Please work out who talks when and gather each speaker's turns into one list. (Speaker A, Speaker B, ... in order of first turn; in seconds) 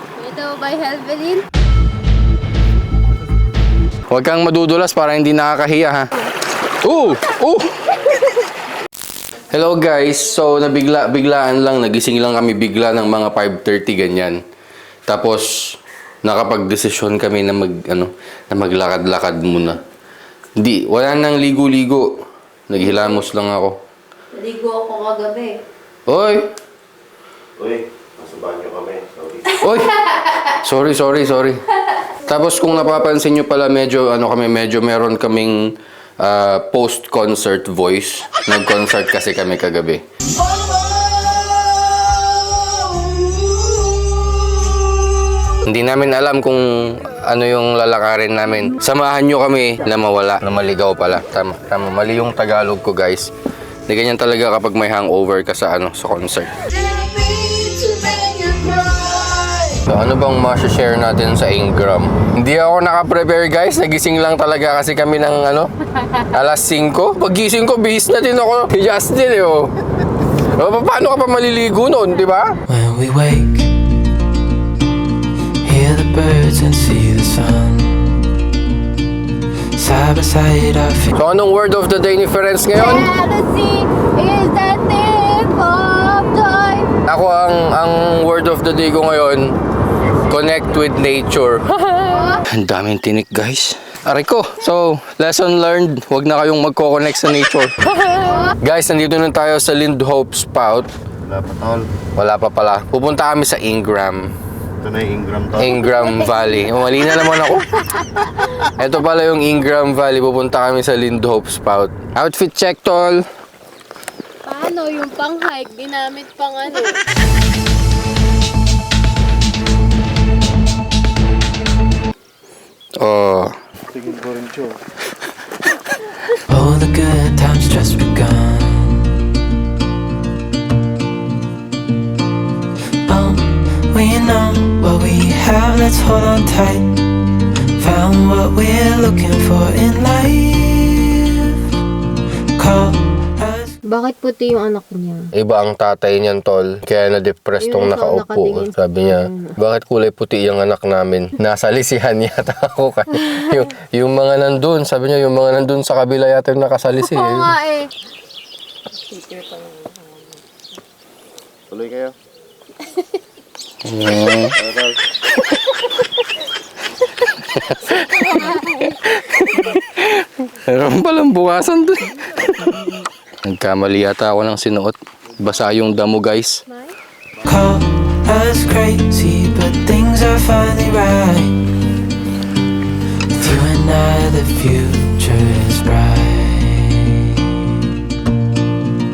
Speaker A: 0.2-1.4, 24.4-25.6, 82.7-87.0, 91.9-92.4, 98.2-98.5, 105.9-106.4, 114.4-117.0, 143.9-145.1, 147.6-148.7, 157.0-157.9, 159.1-160.1
Speaker B: 4.1-6.1, 6.8-8.1, 9.5-14.4, 15.1-15.7, 16.2-19.8, 20.6-22.1, 22.7-23.8, 26.1-26.5, 29.5-31.6, 32.2-40.0, 45.6-53.3, 53.9-56.6, 59.7-69.7, 70.5-72.5, 81.2-83.1, 87.0-89.5, 90.2-91.7, 92.5-97.7, 98.6-100.9, 102.2-104.3, 105.6-107.7, 108.6-113.2, 123.0-123.5, 145.3-157.5, 163.8-164.5, 167.2-176.6
Speaker C: 27.6-29.6, 101.2-101.9, 104.8-105.8, 124.0-124.7, 161.7-162.1, 164.5-165.0
Speaker D: 56.8-59.6, 72.7-73.7, 75.6-78.2, 79.8-81.1, 126.5-129.2, 133.1-137.0, 137.8-141.7, 142.6-145.2, 177.4-181.5, 183.3-187.4